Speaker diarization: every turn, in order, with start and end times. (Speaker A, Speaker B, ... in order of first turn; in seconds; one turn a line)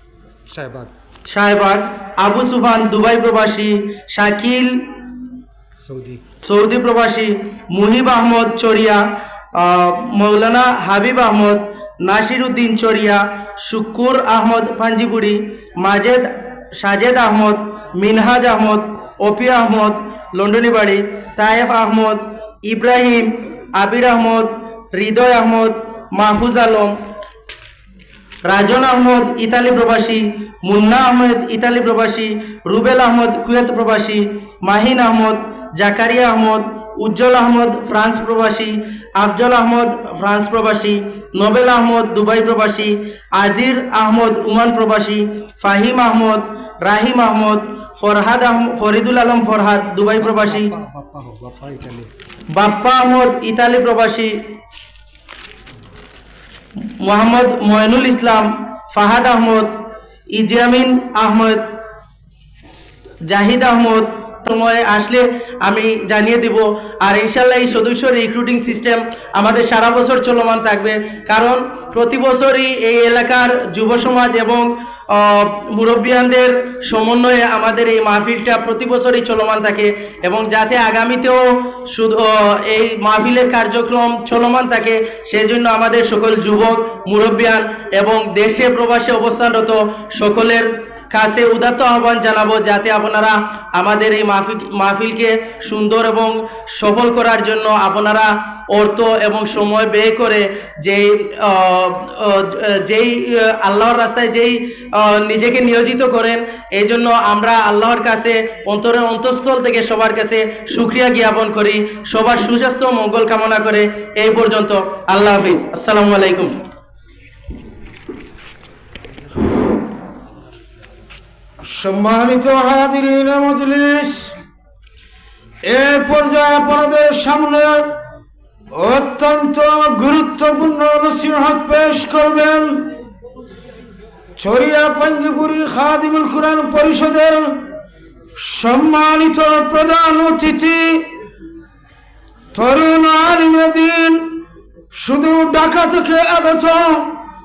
Speaker A: 0.5-0.9
Speaker B: 1.3-4.9
Speaker A: 5.8-6.2
Speaker B: 6.4-9.0
Speaker B: 9.6-27.0
Speaker B: 28.4-50.7
Speaker A: 50.2-52.1
Speaker B: 52.5-54.3
Speaker B: 57.0-59.7
Speaker B: 60.3-61.7
Speaker B: 63.3-116.5
Speaker C: 121.6-124.3
Speaker C: 125.6-127.9
Speaker C: 128.7-132.9
Speaker C: 134.4-137.5
Speaker C: 138.4-141.1
Speaker C: 142.5-144.2
Speaker C: 144.9-147.1